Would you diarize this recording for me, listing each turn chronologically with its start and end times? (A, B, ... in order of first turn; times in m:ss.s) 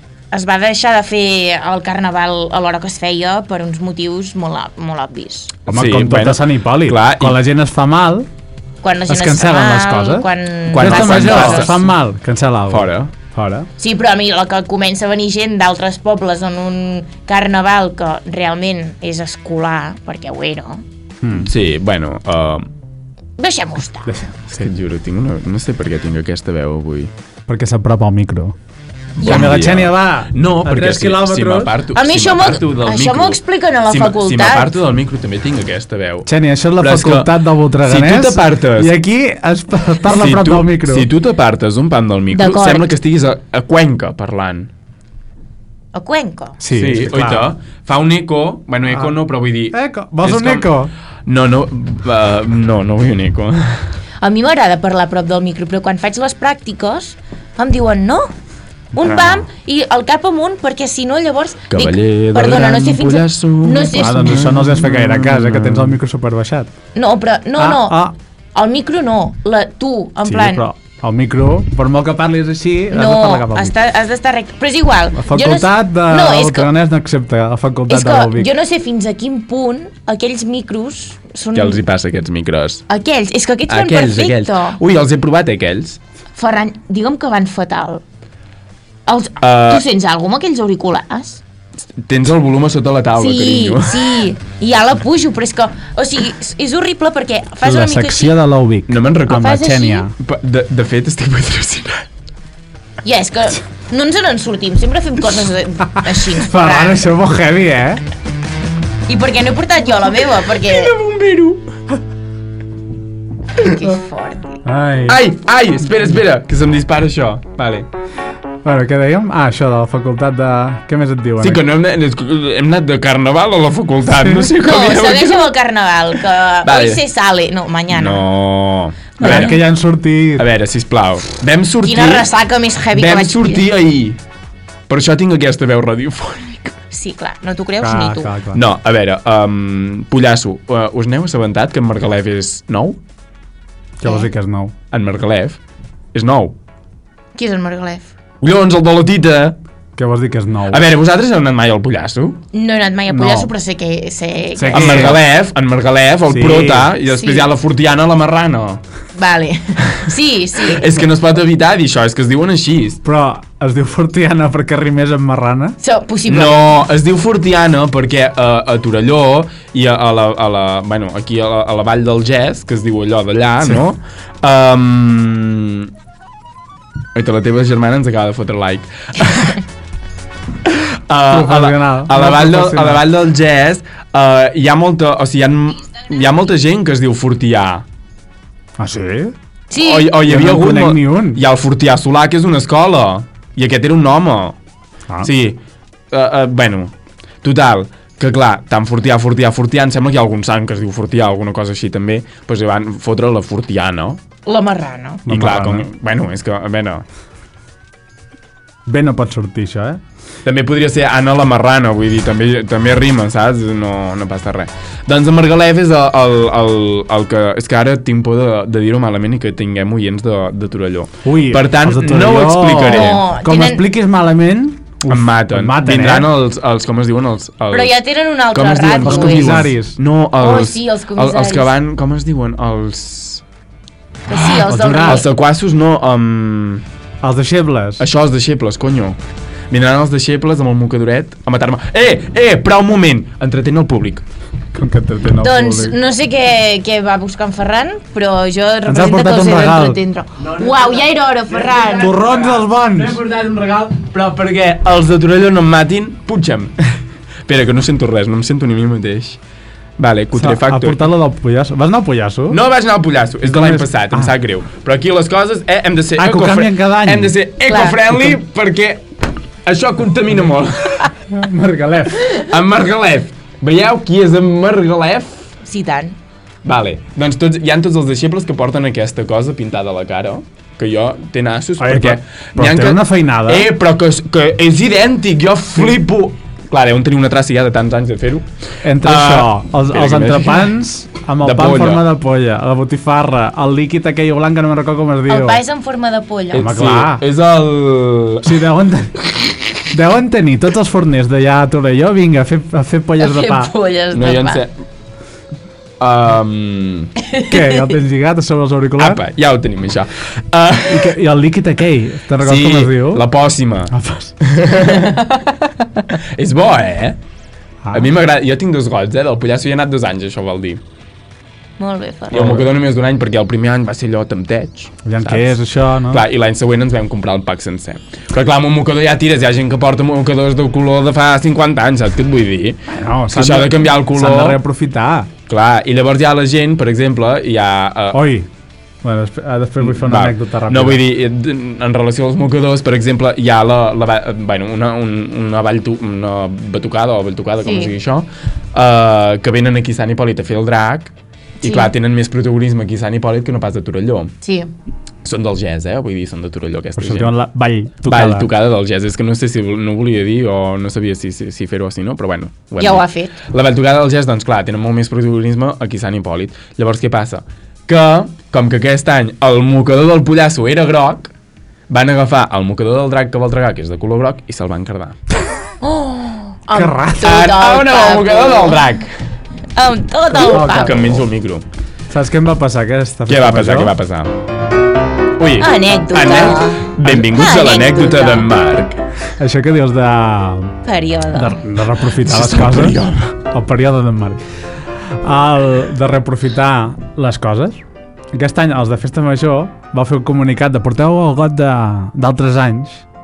0:00.3-0:05.6 A
0:05.7-0:07.4 B
0:05.7-0:08.3 C
0:08.8-0:11.7 A
0:09.1-0:13.7 C
0:10.7-0:11.8 B
0:12.7-0:13.1 B
0:13.8-0:20.8 A
0:21.2-0:21.5 C
0:21.4-0:22.7 B
0:23.4-0:24.1 A
0:24.1-0:24.7 C
0:24.5-0:27.1 B
0:27.5-0:28.6 C
0:29.2-0:29.4 A
0:29.2-0:31.7 C
0:29.2-0:36.3 B
0:31.9-0:34.7 A
0:36.2-0:41.1 C
0:36.8-0:37.3 B
0:37.8-0:38.9 B
0:40.1-0:44.7 B
0:42.3-0:42.9 A
0:45.9-0:46.6 A
0:46.6-0:47.5 C
0:46.7-0:50.7 B
0:49.7-0:50.9 C
0:51.2-0:53.8 B
0:54.2-0:58.3 A
0:58.9-1:04.4 A
0:59.0-0:59.4 B
1:01.7-1:06.0 B
1:03.9-1:06.7 C
1:06.9-1:08.0 A
1:07.6-1:08.1 C
1:08.5-1:10.6 A
1:10.2-1:13.7 C
1:12.9-1:16.7 A
1:15.1-1:18.5 C
1:17.9-1:21.8 A
1:21.5-1:22.8 B
1:22.9-1:24.8 A
1:23.7-1:26.0 B
1:26.4-1:28.0 A
1:29.0-1:31.4 A
1:29.4-1:29.8 B
1:32.0-1:34.2 B
1:33.2-1:38.3 A
1:37.6-1:40.1 C
1:38.9-1:42.0 B
1:39.4-1:40.1 A
1:43.0-1:47.1 A
1:46.3-1:48.0 C
1:49.1-1:50.9 A
1:50.4-1:51.7 B
1:53.6-1:54.6 A
1:54.6-1:55.2 C
1:55.1-1:57.9 B
1:58.6-2:01.6 C
2:01.4-2:05.5 B
2:04.2-2:04.5 C
2:04.6-2:08.2 A
2:06.6-2:07.0 B
2:07.9-2:09.6 B
2:09.2-2:10.5 C
2:09.2-2:09.6 A
2:10.4-2:12.3 B
2:11.8-2:13.6 A
2:12.9-2:14.2 B
2:14.9-2:16.8 B
2:16.9-2:18.3 A
2:17.8-2:18.6 C
2:18.5-2:23.0 B
2:24.0-2:24.7 C
2:24.9-2:25.6 B
2:26.1-2:26.5 B
2:27.3-2:28.1 A
2:28.4-2:29.6 B
2:30.0-2:30.9 C
2:30.7-2:32.4 B
2:32.5-2:35.2 A
2:33.1-2:33.5 C
2:34.6-2:35.2 C
2:34.7-2:38.8 B
2:36.3-2:36.9 C
2:37.1-2:37.5 A
2:39.2-2:40.9 A
2:39.8-2:40.1 B
2:40.6-2:43.0 B
2:43.0-2:45.8 C
2:45.8-2:46.8 A
2:46.3-2:55.9 B
2:57.1-2:59.6 B
3:00.6-3:07.8 B
3:01.3-3:03.0 C
3:08.8-3:09.3 C
3:09.7-3:10.1 A
3:09.8-3:14.6 B
3:10.2-3:11.4 C
3:15.2-3:15.6 B
3:16.1-3:16.9 B
3:17.4-3:24.2 B
3:24.5-3:25.2 A
3:25.2-3:25.9 C
3:25.3-3:27.0 B
3:28.8-3:30.0 C
3:30.4-3:43.2 B
3:41.2-3:46.3 C
3:42.8-3:43.8 A
3:45.1-3:48.0 B
3:47.7-3:49.6 A
3:48.5-3:53.4 B
3:49.0-3:50.0 C
3:50.4-3:51.7 A
3:54.3-3:55.3 A
3:54.3-3:56.8 B
3:54.6-3:55.2 C
3:57.2-3:58.0 C
3:58.0-3:59.2 B
3:59.7-4:04.2 B
4:04.7-4:06.0 C
4:05.4-4:12.1 A
4:08.8-4:10.0 C
4:10.4-4:19.4 B
4:12.0-4:13.2 C
4:20.0-4:21.0 B
4:20.3-4:22.6 C
4:22.5-4:29.0 B
4:23.4-4:24.3 C
4:26.2-4:27.3 C
4:27.6-4:28.0 A
4:29.6-4:31.1 B
4:31.3-4:32.4 C
4:32.3-4:35.5 B
4:35.6-4:36.2 A
4:36.6-4:48.5 B
4:41.8-4:43.7 C
4:48.8-4:55.6 C
4:49.0-4:50.7 B
4:51.4-4:52.0 B
4:55.3-4:56.7 A
4:56.5-4:58.6 B
4:56.6-4:57.2 C
4:58.4-4:59.3 C
4:59.9-5:03.7 C
5:03.2-5:04.6 A
5:04.1-5:04.7 B
5:06.0-5:07.1 B
5:07.2-5:07.9 A
5:07.5-5:09.2 C
5:09.0-5:11.1 B
5:10.9-5:13.3 C
5:12.4-5:15.3 B
5:13.9-5:14.3 C
5:16.1-5:17.2 B
5:17.8-5:18.1 C
5:17.9-5:20.8 B
5:21.8-5:22.7 A
5:22.3-5:32.8 B
5:25.0-5:26.2 C
5:32.9-5:35.3 C
5:33.3-5:34.6 B
5:35.5-5:38.2 B
5:38.1-5:38.5 C
5:39.0-5:41.0 C
5:39.8-5:54.3 B
5:47.6-5:47.9 A
5:51.6-5:51.9 A
5:54.4-5:54.7 A
5:55.2-5:57.3 B
5:57.0-5:58.5 C
5:58.0-6:11.3 B
6:02.8-6:03.4 A
6:11.9-6:15.2 B
6:15.8-6:18.8 A
6:16.7-6:17.4 C
6:17.2-6:19.1 B
6:19.8-6:21.0 A
6:20.3-6:21.2 C
6:20.4-6:21.6 B
6:22.1-6:23.9 C
6:23.3-6:24.3 B
6:25.4-6:29.0 B
6:25.6-6:28.5 A
6:29.4-6:30.8 C
6:30.8-6:31.6 A
6:31.3-6:34.4 C
6:32.2-6:33.4 B
6:35.1-6:37.8 C
6:38.3-6:43.0 C